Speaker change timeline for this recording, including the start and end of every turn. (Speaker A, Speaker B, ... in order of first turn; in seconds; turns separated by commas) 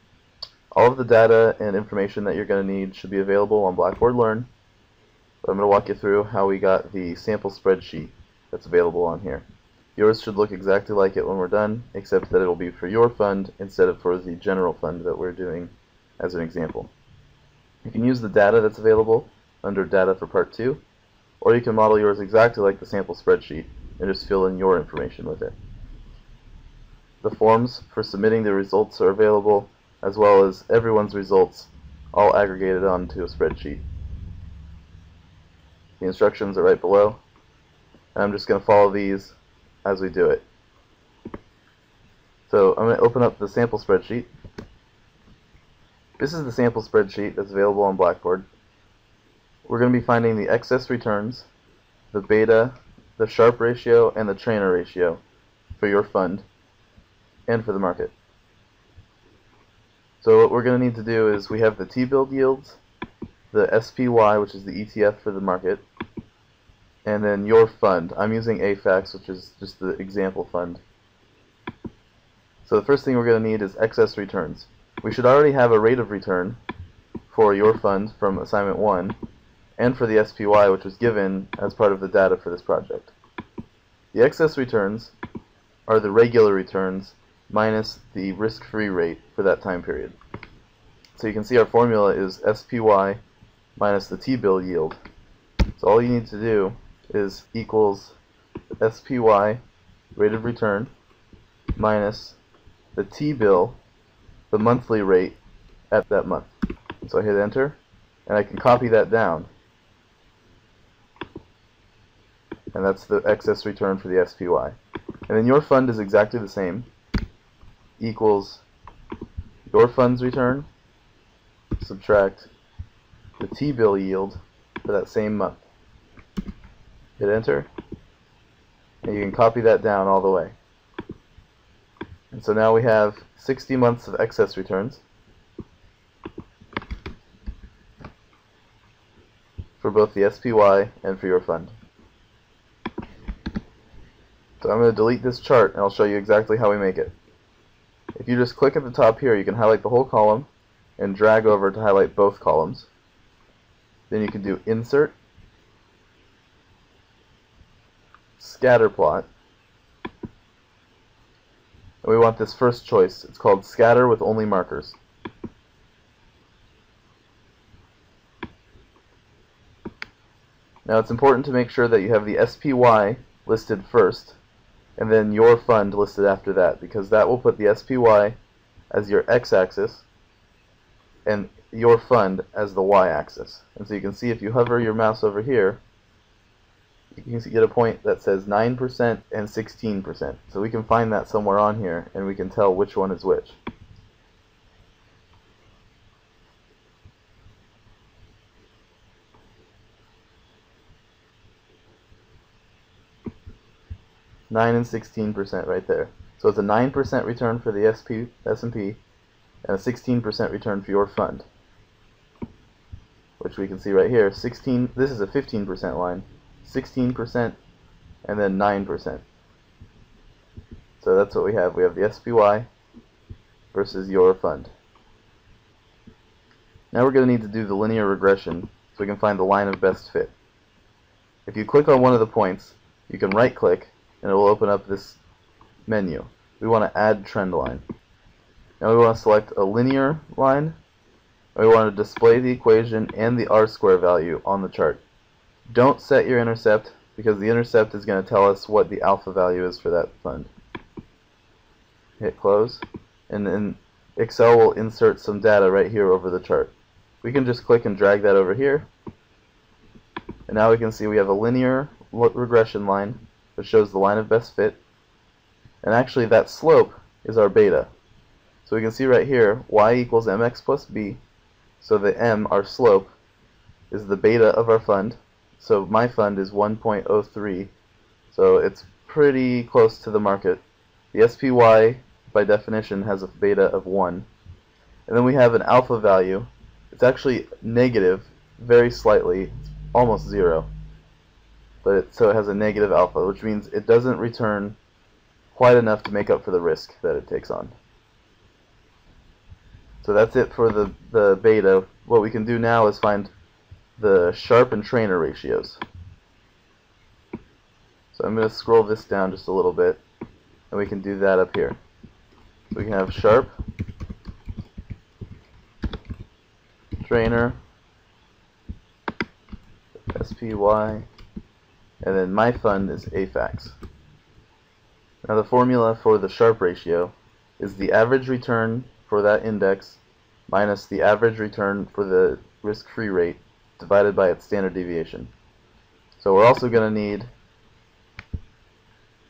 Speaker A: 0.7-4.5, Speaker A: 5.4-9.4, Speaker A: 9.9-16.9, Speaker A: 17.8-20.8, Speaker A: 21.4-25.5, Speaker A: 27.2-33.8, Speaker A: 36.0-37.2, Speaker A: 38.1-40.4, Speaker A: 42.5-44.3, Speaker A: 46.2-48.5, Speaker A: 49.6-51.5, Speaker A: 52.1-55.2, Speaker A: 55.8-56.4, Speaker A: 57.5-58.1, Speaker A: 60.2-62.8, Speaker A: 63.5-65.8, Speaker A: 67.0-70.8, Speaker A: 72.6-76.6, Speaker A: 77.3-79.2, Speaker A: 79.8-83.1, Speaker A: 84.1-85.1, Speaker A: 85.9-90.2, Speaker A: 91.1-93.2, Speaker A: 93.8-95.0, Speaker A: 95.8-98.2, Speaker A: 98.8-99.6, Speaker A: 100.1-100.9, Speaker A: 101.8-102.4, Speaker A: 102.9-103.8, Speaker A: 104.5-105.4, Speaker A: 105.9-109.5, Speaker A: 112.7-114.8, Speaker A: 115.3-116.9, Speaker A: 118.0-118.6, Speaker A: 119.7-120.7, Speaker A: 121.8-122.5, Speaker A: 123.4-125.7, Speaker A: 127.2-127.7, Speaker A: 129.0-130.6, Speaker A: 132.3-135.0, Speaker A: 139.8-141.7, Speaker A: 144.6-147.1, Speaker A: 148.1-152.9, Speaker A: 154.1-155.1, Speaker A: 158.4-159.3, Speaker A: 162.0-165.0, Speaker A: 170.8-174.4, Speaker A: 175.0-178.4, Speaker A: 178.9-180.1, Speaker A: 181.3-185.8, Speaker A: 187.1-193.6, Speaker A: 204.5-209.0, Speaker A: 209.7-211.4, Speaker A: 213.4-217.6, Speaker A: 218.2-219.2, Speaker A: 221.0-222.7, Speaker A: 223.7-224.7, Speaker A: 226.9-230.3, Speaker A: 231.4-235.2, Speaker A: 235.9-237.8, Speaker A: 238.8-240.8, Speaker A: 241.6-245.0, Speaker A: 245.7-250.5, Speaker A: 252.2-258.9, Speaker A: 260.5-264.8, Speaker A: 265.8-267.9, Speaker A: 268.6-271.2, Speaker A: 271.8-273.1, Speaker A: 273.9-277.7, Speaker A: 278.3-280.6, Speaker A: 281.1-284.3, Speaker A: 285.1-290.7, Speaker A: 291.8-294.8, Speaker A: 295.5-297.7, Speaker A: 300.0-303.3, Speaker A: 304.0-305.8, Speaker A: 308.1-310.0, Speaker A: 310.7-311.8, Speaker A: 312.7-313.5, Speaker A: 317.0-317.6, Speaker A: 320.1-321.1, Speaker A: 322.0-323.8, Speaker A: 325.2-335.3, Speaker A: 336.2-337.3